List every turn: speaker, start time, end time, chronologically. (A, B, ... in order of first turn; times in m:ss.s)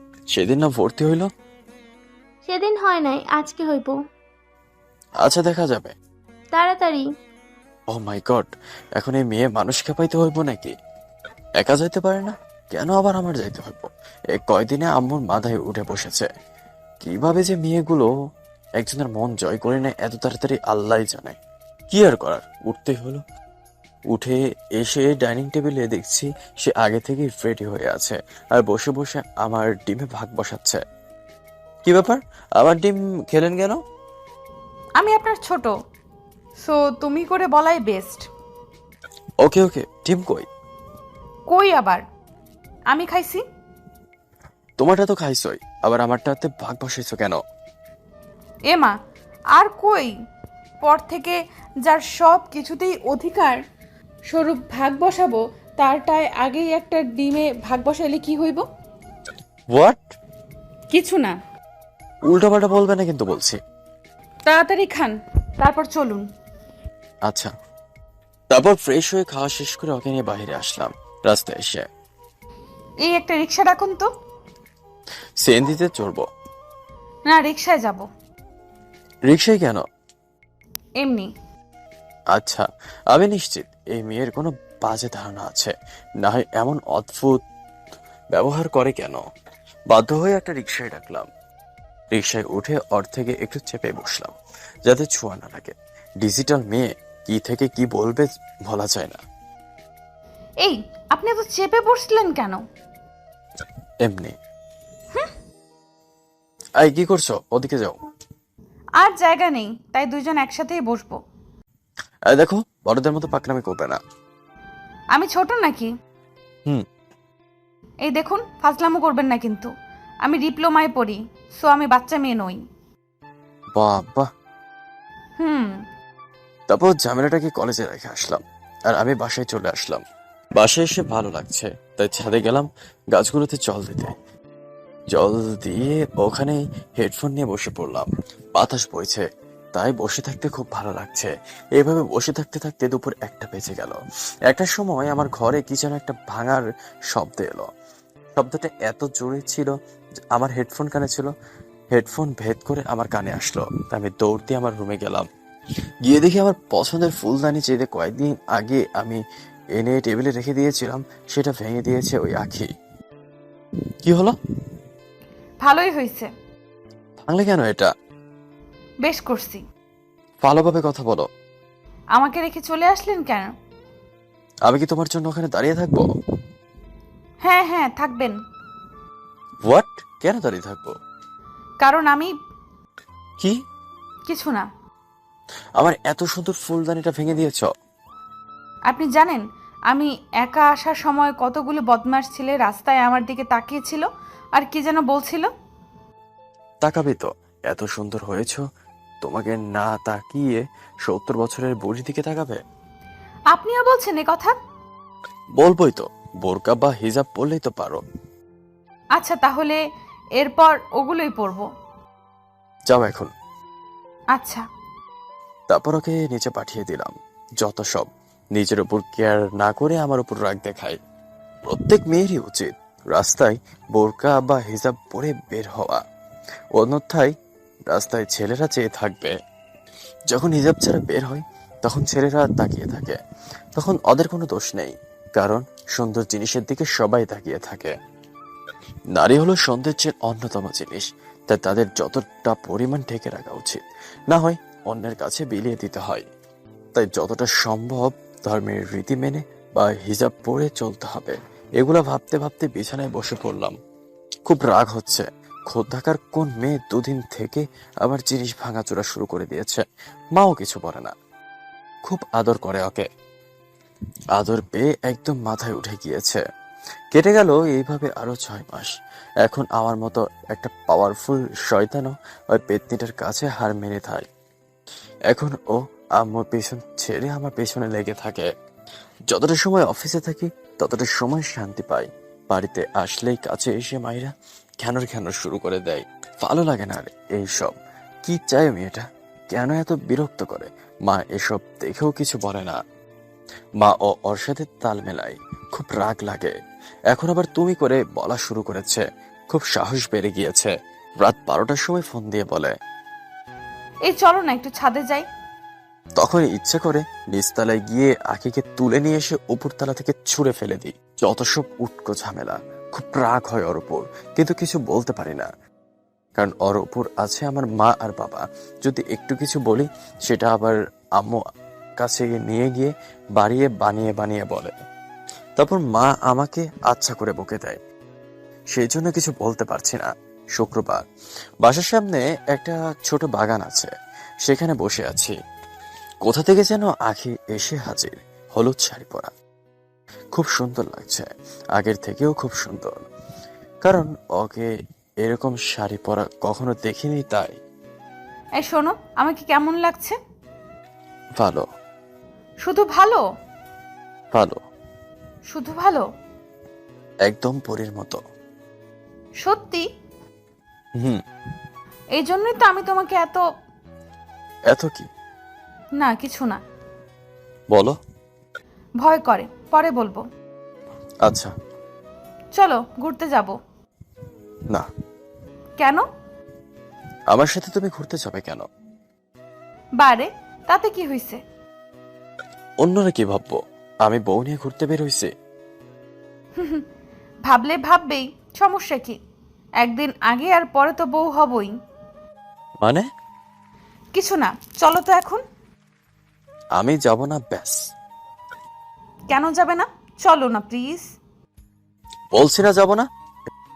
0:00.3-0:01.3 A
0:02.4-0:04.0 B
0:05.2-0:05.9 A
0:06.5-0:07.1 B
0:07.9-0:10.7 A
0:11.6-0:16.3 A
0:17.0-0:18.1 A
0:18.8-0:21.4 A
0:21.9-0:23.2 A
0:24.1-0:30.8 A
0:31.9-0:33.8 A
0:35.0-0:35.7 C
0:36.6-0:38.2 C
0:39.4-0:40.5 A
0:41.5-0:42.0 C
0:42.9-0:43.4 C
0:44.8-0:47.4 A
0:48.7-0:48.9 C
0:49.6-0:50.1 C
0:50.8-0:53.6 C
0:54.3-0:58.6 C
0:59.7-1:00.2 A
1:00.9-1:01.4 C
1:02.2-1:03.6 A
1:04.4-1:06.2 C
1:07.2-1:07.5 A
1:08.5-1:11.9 A
1:13.0-1:14.1 C
1:15.4-1:16.2 A
1:17.3-1:18.0 C
1:19.3-1:19.8 A
1:21.0-1:21.3 C
1:22.3-1:25.7 A
1:26.2-1:27.4 A
1:28.3-1:29.2 A
1:29.9-1:31.3 A
1:32.1-1:34.3 A
1:34.9-1:39.2 A
1:40.6-1:42.6 C
1:44.0-1:44.3 A
1:46.8-1:48.0 A
1:49.0-1:51.2 C
1:52.3-1:54.0 A
1:55.1-1:55.9 C
1:58.0-1:59.7 C
2:00.2-2:02.6 C
2:03.8-2:04.2 A
2:05.4-2:05.8 C
2:06.7-2:10.0 A
2:10.6-2:14.1 A
2:15.1-2:24.0 A
2:24.5-2:27.7 A
2:28.4-2:29.7 A
2:30.3-2:31.3 A
2:31.9-2:35.3 A
2:36.1-2:39.2 A
2:39.8-2:42.7 A
2:44.0-2:44.4 A
2:45.6-2:46.3 C
2:47.2-2:47.9 A
2:49.0-2:49.6 C
2:50.4-2:51.3 A
2:52.2-2:53.5 C
2:54.6-2:56.1 A
2:57.4-2:58.3 C
2:59.7-3:01.0 A
3:01.8-3:02.3 C
3:04.3-3:04.7 C
3:05.8-3:07.7 A
3:08.9-3:14.0 C
3:14.6-3:15.5 C
3:16.8-3:18.6 A
3:19.2-3:22.6 A
3:23.5-3:24.6 C
3:25.6-3:28.0 A
3:29.2-3:29.8 C
3:30.4-3:31.7 C
3:32.9-3:33.3 A
3:34.3-3:34.6 C
3:35.7-3:41.0 A
3:41.7-3:46.0 A
3:46.8-3:47.3 A
3:47.9-3:49.4 A
3:50.3-3:53.2 A
3:53.8-3:57.9 A
3:59.1-4:06.3 A
4:06.9-4:13.8 A
4:14.4-4:19.8 A
4:20.3-4:21.1 A
4:22.0-4:23.1 A
4:24.3-4:26.4 A
4:27.1-4:28.9 A
4:29.4-4:34.3 A
4:35.3-4:38.5 A
4:39.3-4:52.8 A
4:53.8-4:56.5 A
4:57.1-5:00.7 A
5:01.2-5:02.7 A
5:04.1-5:05.3 C
5:06.2-5:15.5 A
5:16.4-5:21.4 A
5:22.0-5:24.7 A
5:25.6-5:27.8 A
5:28.8-5:30.1 A
5:30.6-5:31.0 A
5:31.6-5:33.9 A
5:34.4-5:35.3 A
5:36.2-5:39.3 A
5:40.3-5:43.0 A
5:43.8-5:44.7 A
5:45.2-5:47.6 A
5:48.6-5:50.2 C
5:51.4-5:51.6 A
5:52.6-5:53.2 C
5:54.3-5:54.6 A
5:55.5-5:56.0 C
5:57.3-5:58.2 A
5:59.4-5:59.8 C
6:02.2-6:03.4 C
6:04.7-6:05.1 A
6:06.0-6:06.6 C
6:09.0-6:10.2 C
6:11.3-6:11.5 A
6:12.6-6:13.5 C
6:17.3-6:18.7 A
6:20.0-6:21.4 C
6:22.8-6:25.3 A
6:26.6-6:26.8 C
6:27.5-6:29.2 C
6:29.8-6:31.7 C
6:32.8-6:33.1 A
6:34.2-6:35.4 C
6:36.8-6:37.8 A
6:39.3-6:41.0 C
6:42.3-6:43.1 A